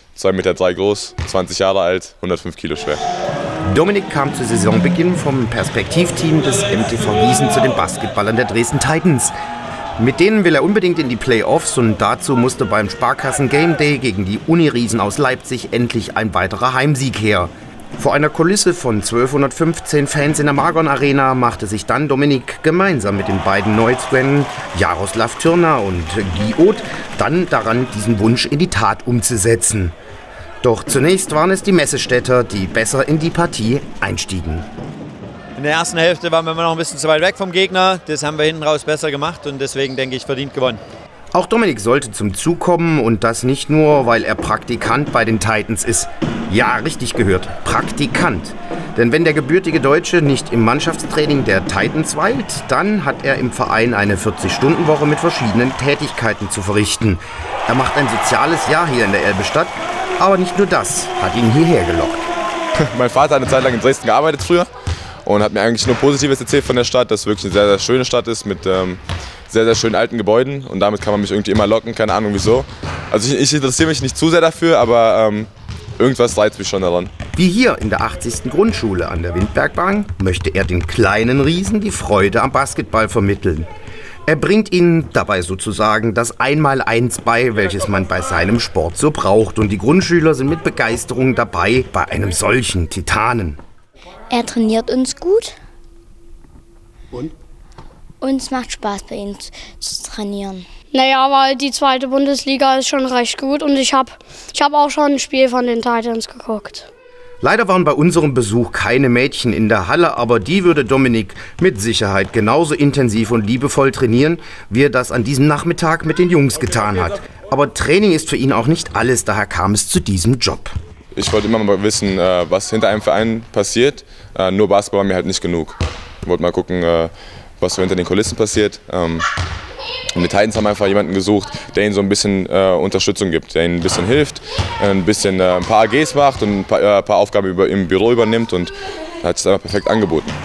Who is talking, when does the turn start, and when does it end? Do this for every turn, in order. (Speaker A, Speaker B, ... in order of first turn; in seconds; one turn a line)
Speaker A: 0.1-3.0
Speaker B: 3.7-9.3
Speaker B: 10.0-29.9
Speaker B: 30.6-34.6
Speaker C: 35.6-40.8
Speaker B: 41.3-62.2
Speaker A: 62.9-64.7
Speaker A: 65.2-77.1
Speaker B: 77.3-83.7
Speaker B: 84.3-93.6
Speaker D: 94.3-95.5
Speaker D: 98.2-100.6
Speaker E: 100.9-106.9
Speaker B: 107.4-120.7
Speaker A: 121.2-129.3
Speaker A: 130.1-140.3